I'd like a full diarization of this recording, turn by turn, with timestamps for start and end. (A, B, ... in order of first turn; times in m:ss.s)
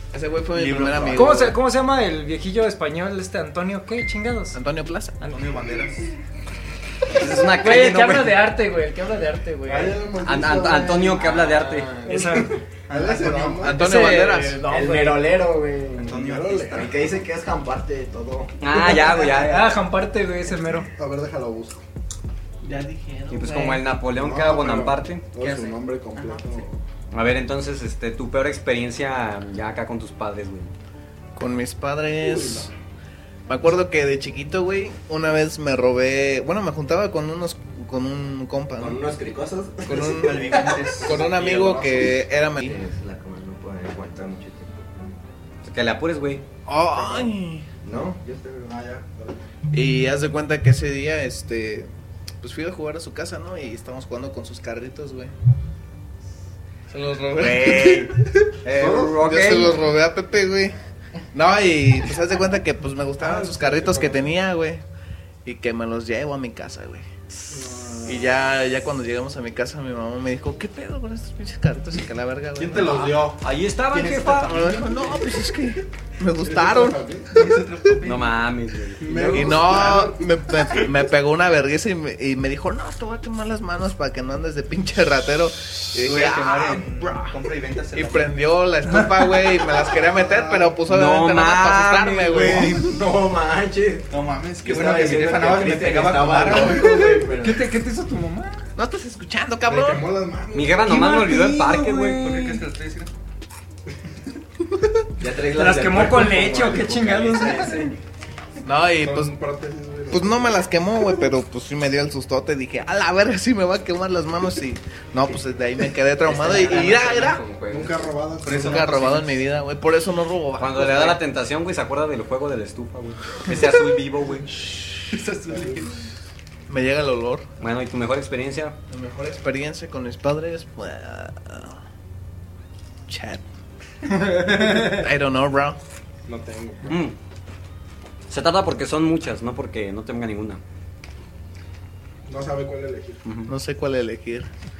0:00.1-0:01.5 A
0:00.5-0:01.5 B
0:01.1-0:04.6 C
0:04.5-0:05.2 A
0:05.2-0:06.1 B
0:07.1-0:08.4 D
0:07.3-0:10.1 C
0:09.7-0:11.1 E
0:10.2-0:11.9 D
0:11.1-0:12.4 F
0:12.1-0:12.6 C
0:12.9-0:13.7 B
0:12.9-0:13.9 E
0:13.6-0:14.7 A
0:13.7-0:15.3 C
0:14.6-0:18.5 F
0:16.0-0:17.0 B
0:16.2-0:16.8 E
0:18.6-0:19.8 D
0:18.7-0:20.9 C
0:21.0-0:21.8 E
0:22.6-0:23.6 A
0:23.3-0:25.3 D
0:23.4-0:23.8 C
0:24.1-0:26.8 E
0:27.1-0:30.7 D
0:31.4-0:32.7 A
0:32.3-0:32.6 E
0:33.5-0:39.0 A
0:38.8-0:45.2 F
0:39.8-0:42.8 A
0:40.1-0:41.3 B
0:45.6-0:46.4 D
0:46.6-0:47.7 A
0:47.8-0:48.8 F
0:48.7-0:49.4 E
0:49.7-0:51.9 A
0:52.4-0:55.3 A
0:56.9-0:58.2 A
0:57.4-0:59.8 D
0:58.8-1:00.7 A
1:01.3-1:04.8 A
1:03.2-1:04.3 E
1:05.4-1:07.0 A
1:07.5-1:08.3 E
1:08.0-1:13.2 A
1:12.6-1:13.4 E
1:13.4-1:14.6 D
1:14.1-1:17.0 A
1:16.4-1:17.4 E
1:17.3-1:18.4 B
1:18.0-1:19.0 D
1:19.0-1:20.2 E
1:19.3-1:27.4 A
1:25.9-1:28.4 B
1:27.9-1:33.0 A
1:30.0-1:30.7 E
1:30.8-1:32.8 D
1:32.7-1:34.1 F
1:34.1-1:37.0 B
1:34.6-1:37.7 F
1:36.8-1:37.2 A
1:37.3-1:38.6 C
1:38.8-1:40.0 A
1:39.6-1:40.9 E
1:40.5-1:42.4 D
1:40.9-1:42.6 C
1:42.1-1:43.1 B
1:45.2-1:48.0 F
1:45.5-1:47.9 C
1:48.6-1:49.3 A
1:48.9-1:50.6 E
1:50.1-1:57.5 A
1:56.2-1:58.1 F
1:57.7-1:59.0 E
1:58.4-1:59.4 B
1:58.5-2:01.2 A
2:00.6-2:04.7 D
2:05.1-2:06.0 B
2:05.5-2:05.8 E
2:06.7-2:07.4 A
2:07.6-2:08.8 D
2:08.9-2:11.8 A
2:13.1-2:13.4 A
2:14.2-2:15.8 A
2:16.3-2:17.0 E
2:16.9-2:17.2 D
2:18.3-2:20.6 D
2:22.3-2:23.3 E
2:23.2-2:23.5 D
2:23.4-2:24.5 A